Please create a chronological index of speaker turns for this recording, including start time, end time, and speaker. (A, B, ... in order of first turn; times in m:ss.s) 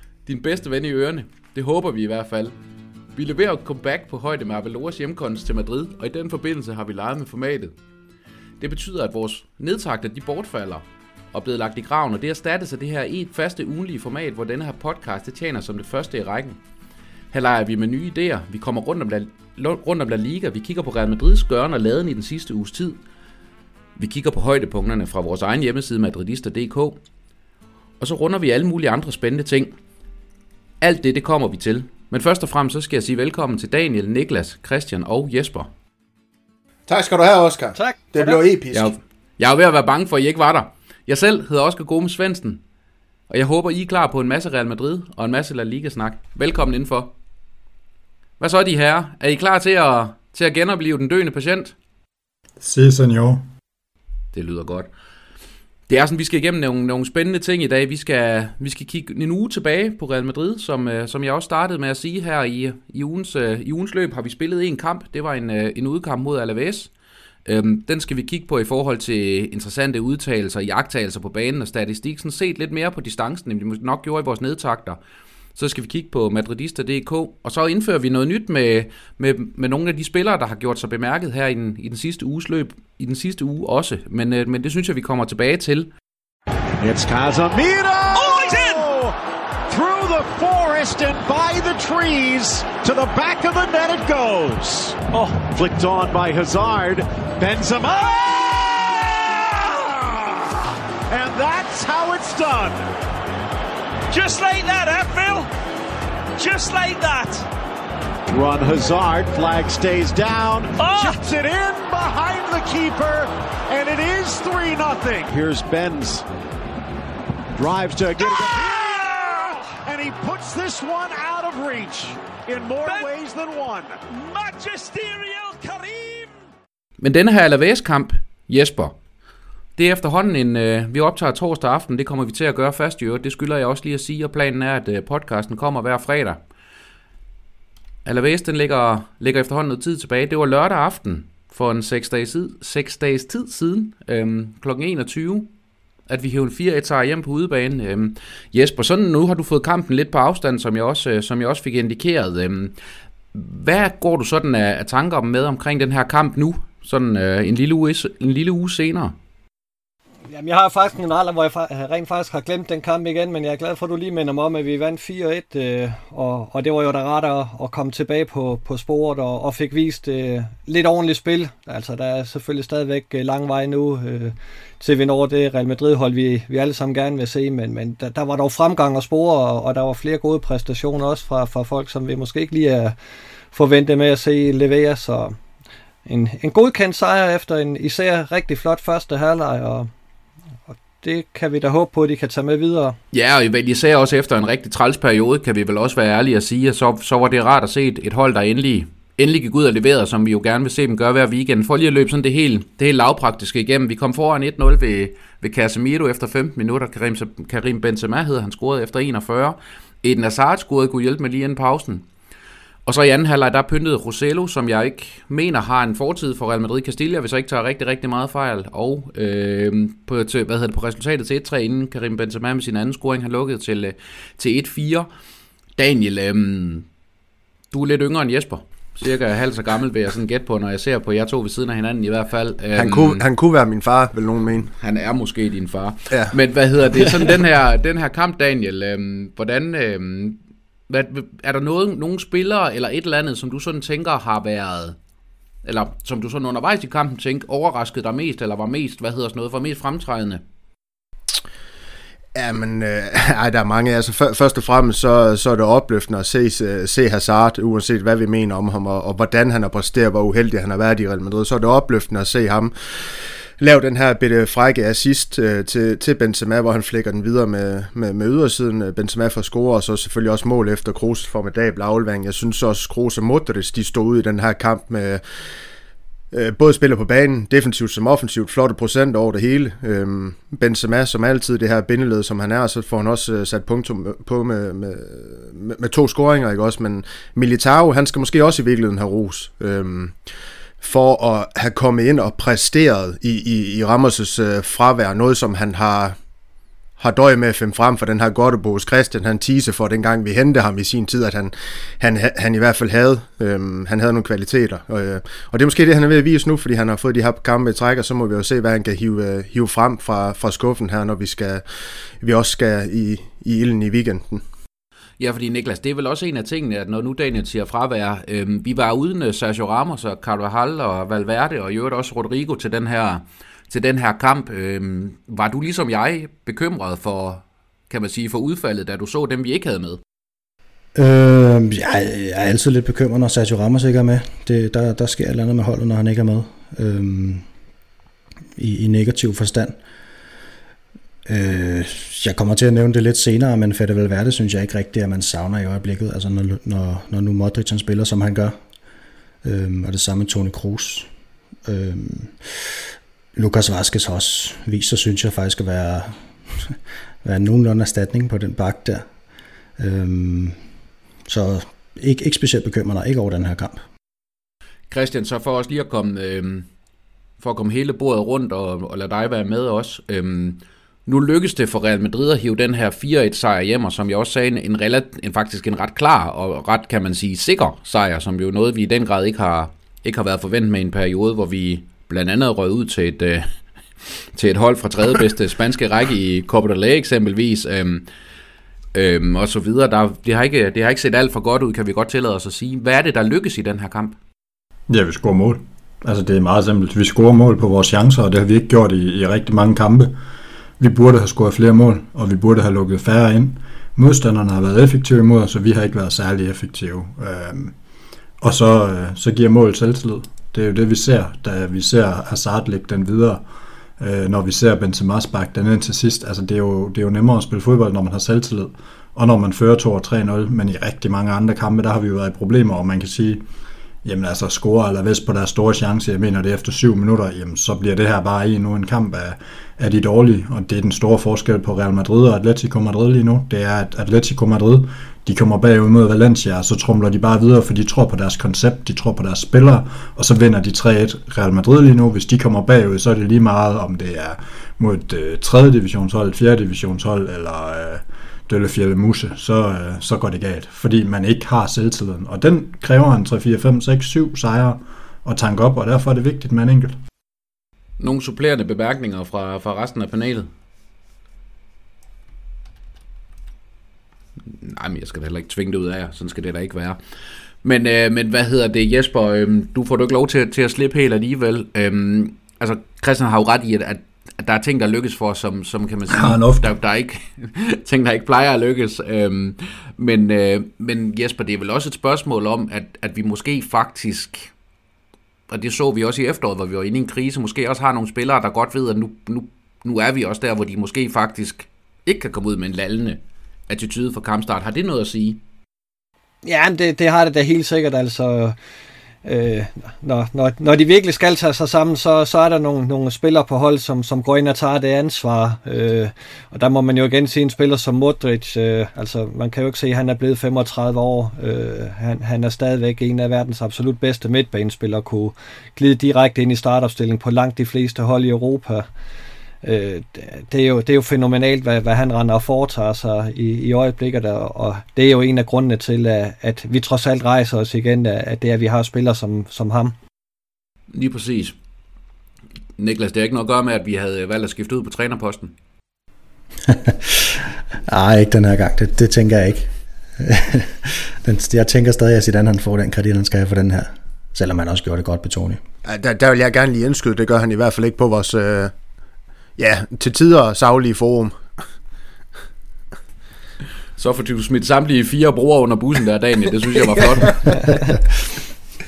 0:00.2-0:02.6 A
0:03.1-0:07.7 A
0:08.6-0:16.6 A
0:17.3-0:23.0 A
0:24.0-0:27.0 A
0:28.0-0:29.7 A
0:30.8-0:35.7 A
0:36.9-0:38.9 B
0:37.8-0:38.4 C
0:38.7-0:42.6 A
0:43.3-0:47.1 A
0:48.4-0:51.7 A
0:52.6-0:53.4 D
0:54.3-0:54.9 A
0:55.9-1:06.9 A
1:07.4-1:15.0 A
1:15.6-1:25.9 A
1:26.8-1:29.2 E
1:28.1-1:28.9 F
1:29.7-1:40.4 E
1:35.1-1:35.4 F
1:41.1-1:42.8 E
1:44.1-1:45.5 F
1:46.3-1:47.5 F
1:48.3-1:56.2 E
1:50.8-1:51.2 F
1:57.6-2:03.9 E
1:58.3-1:59.1 F
2:02.8-2:03.1 F
2:04.1-2:06.3 F
2:07.0-2:09.0 A
2:09.8-2:16.4 A
2:18.0-2:25.5 A
2:26.1-2:32.7 A
2:33.3-2:39.1 A
2:40.3-3:02.9 C
3:03.5-3:05.4 C
3:06.0-3:09.9 C
3:11.0-3:13.0 C
3:13.1-3:32.0 A
3:32.8-3:45.1 A
3:45.8-3:46.8 A
3:47.7-3:53.2 A
3:52.8-3:54.7 B
3:54.8-4:05.0 A
4:05.6-4:10.4 A
4:12.3-4:35.2 B
4:36.3-4:50.2 B
4:50.8-4:56.2 B
4:57.0-5:11.6 B
5:12.2-5:14.4 B
5:15.2-5:30.0 A
5:30.9-5:37.4 G
5:38.6-5:39.8 G
5:41.3-5:48.6 G
5:49.4-5:51.1 G
5:51.6-5:52.8 G
5:53.4-5:59.0 G
5:59.8-6:00.6 G
6:01.3-6:03.8 G
6:04.9-6:06.7 A
6:07.4-6:23.5 A
6:24.3-6:28.1 A
6:28.9-6:34.2 A
6:34.9-6:40.2 D
6:40.8-6:47.7 D
6:48.4-6:53.4 D
6:54.0-7:03.4 D
7:04.0-7:37.0 D
7:38.0-7:40.5 A
7:44.4-7:47.0 A
7:47.6-8:04.5 A
7:56.1-7:56.7 D
8:05.5-8:15.4 A
8:16.4-8:18.6 C
8:19.2-8:38.8 C
8:39.6-8:49.9 C
8:50.9-8:51.5 A
8:52.8-8:55.5 A
8:56.6-9:05.6 G
9:05.8-9:08.7 B
9:09.6-9:11.4 B
9:14.0-9:17.7 A